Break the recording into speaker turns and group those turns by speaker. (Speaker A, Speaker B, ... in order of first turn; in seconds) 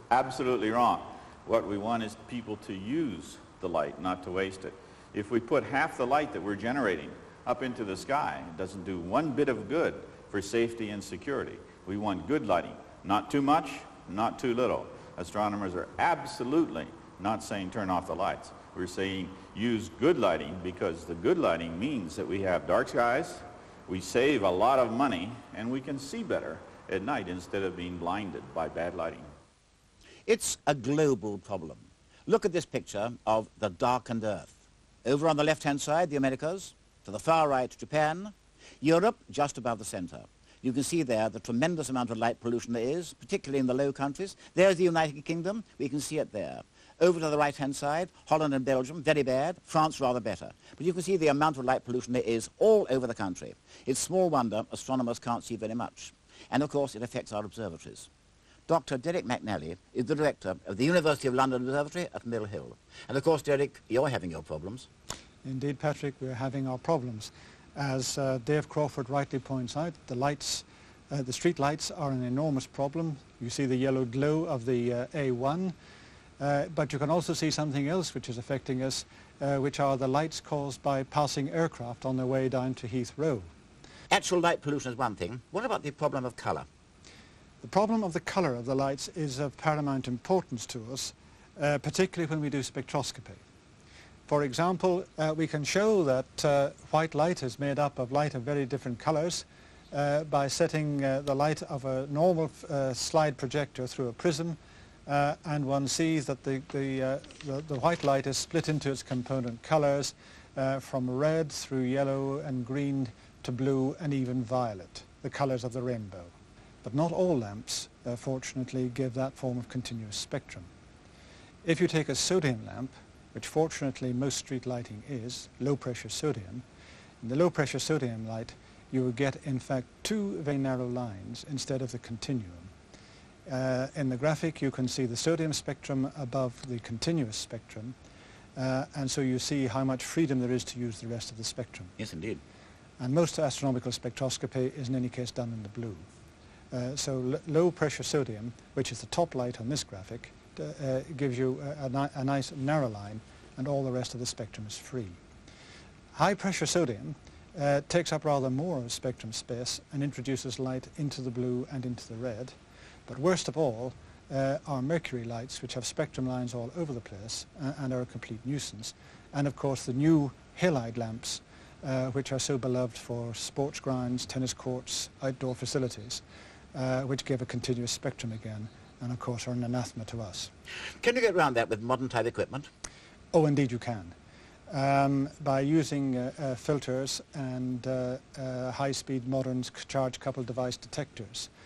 Speaker A: 0.1-29.3
Speaker B: 30.2-58.1, 58.7-64.9, 84.1-86.7, 142.0-142.4, 181.0-182.7
Speaker C: 65.4-75.7, 76.4-83.5, 87.6-93.4, 94.3-120.7, 121.6-126.6, 127.2-132.7, 133.4-137.9, 138.6-141.9, 143.0-146.1, 146.7-155.2, 156.1-162.6, 163.1-176.2, 176.7-180.5, 183.3-184.2, 184.7-191.5